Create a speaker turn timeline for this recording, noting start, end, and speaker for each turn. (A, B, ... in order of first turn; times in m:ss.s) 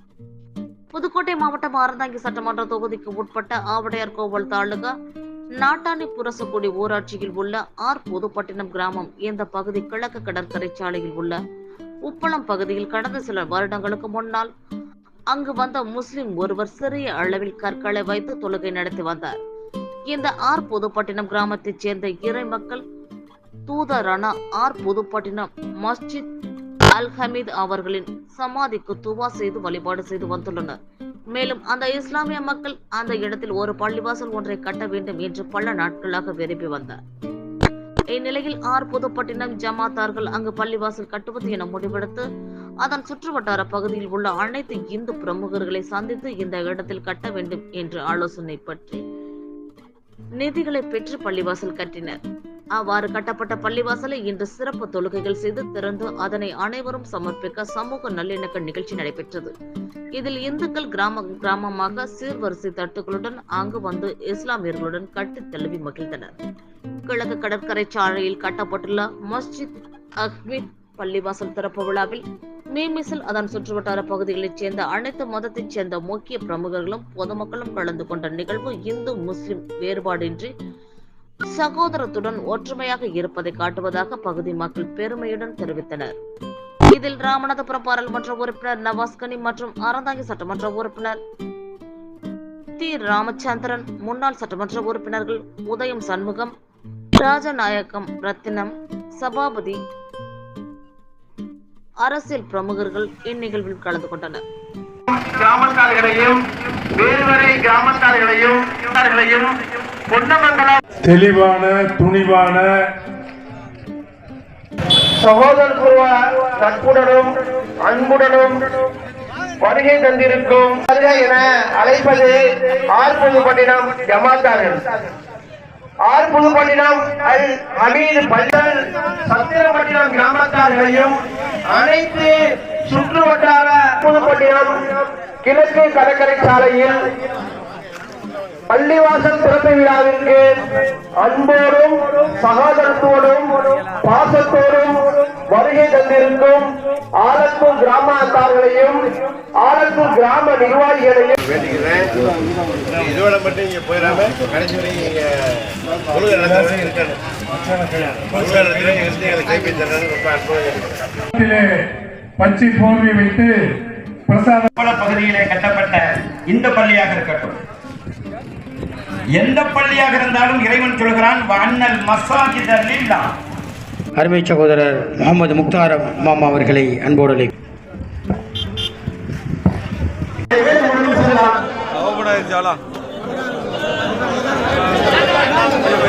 0:00.9-0:04.9 A
0:05.6-0:11.4 A
0:12.1-0:14.5 A
0:15.3-0:19.4 A
0:20.1-0:22.8 A
0:23.7-0:26.2 A
0:26.9-0:30.8 A
0:31.3-0:37.0 A
0:38.1-0:42.2 A
0:42.8-0:49.0 A
0:50.4-0:52.2 A
0:52.8-0:59.5 A
1:00.2-1:06.3 A
1:07.1-1:20.5 A
1:21.5-1:26.1 A
1:26.9-1:31.2 A
1:32.8-1:36.5 A
1:37.2-1:39.8 A
1:42.0-1:44.4 A
1:45.1-1:46.4 B
1:47.0-1:49.5 B
1:50.1-1:50.8 B
1:51.0-1:52.7 C
1:55.2-1:57.3 B
1:57.8-1:58.6 B
1:59.6-2:04.9 B
2:06.0-2:11.2 B
2:11.7-2:12.4 B
2:12.9-2:14.7 B
2:15.4-2:17.0 B
2:18.7-2:20.4 B
2:21.2-2:29.0 B
2:29.6-2:31.4 B
2:33.0-2:35.0 D
2:36.3-2:36.9 C
2:37.7-2:38.1 C
2:38.5-2:40.3 D
2:41.3-2:41.8 C
2:42.4-2:43.5 C
2:44.3-2:44.7 C
2:44.8-2:47.6 E
2:49.3-2:53.3 E
2:54.2-2:57.5 F
3:00.5-3:01.6 B